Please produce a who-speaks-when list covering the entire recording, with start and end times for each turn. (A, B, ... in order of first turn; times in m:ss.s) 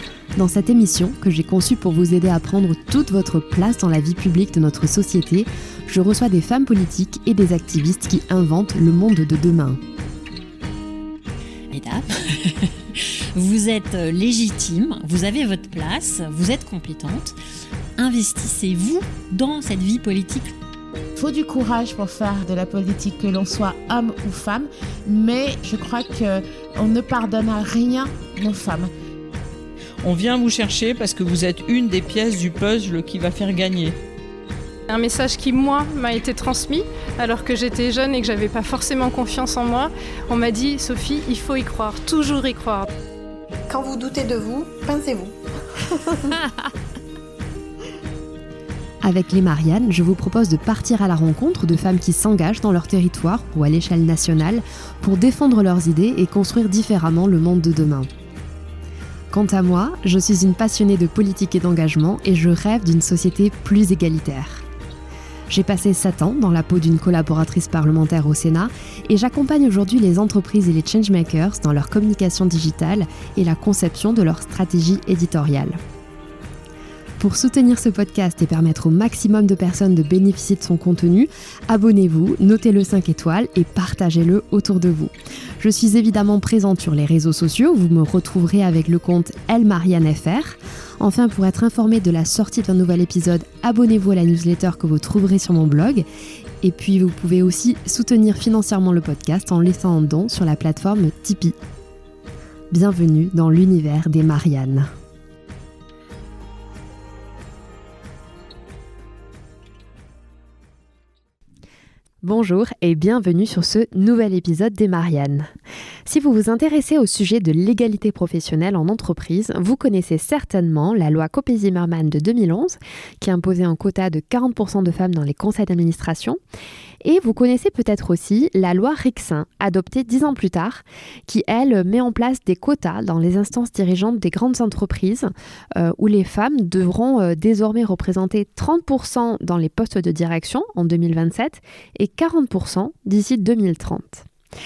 0:00.4-0:09.8 A
0:11.7-0:12.7 B
0:13.3-0:17.3 B
0:18.0-0:20.5 B
0:21.2-0:28.9 C
0:30.0-0:33.9 D
0:34.9-0:42.9 E
0:43.7-0:46.4 F
0:49.0-0:58.1 A
0:59.3-1:04.6 A
1:05.5-1:15.8 A
1:17.2-1:36.0 A
1:36.6-1:41.5 A
1:42.7-1:44.9 A
1:52.2-1:55.5 A
1:56.0-2:06.4 A
2:07.0-2:24.2 A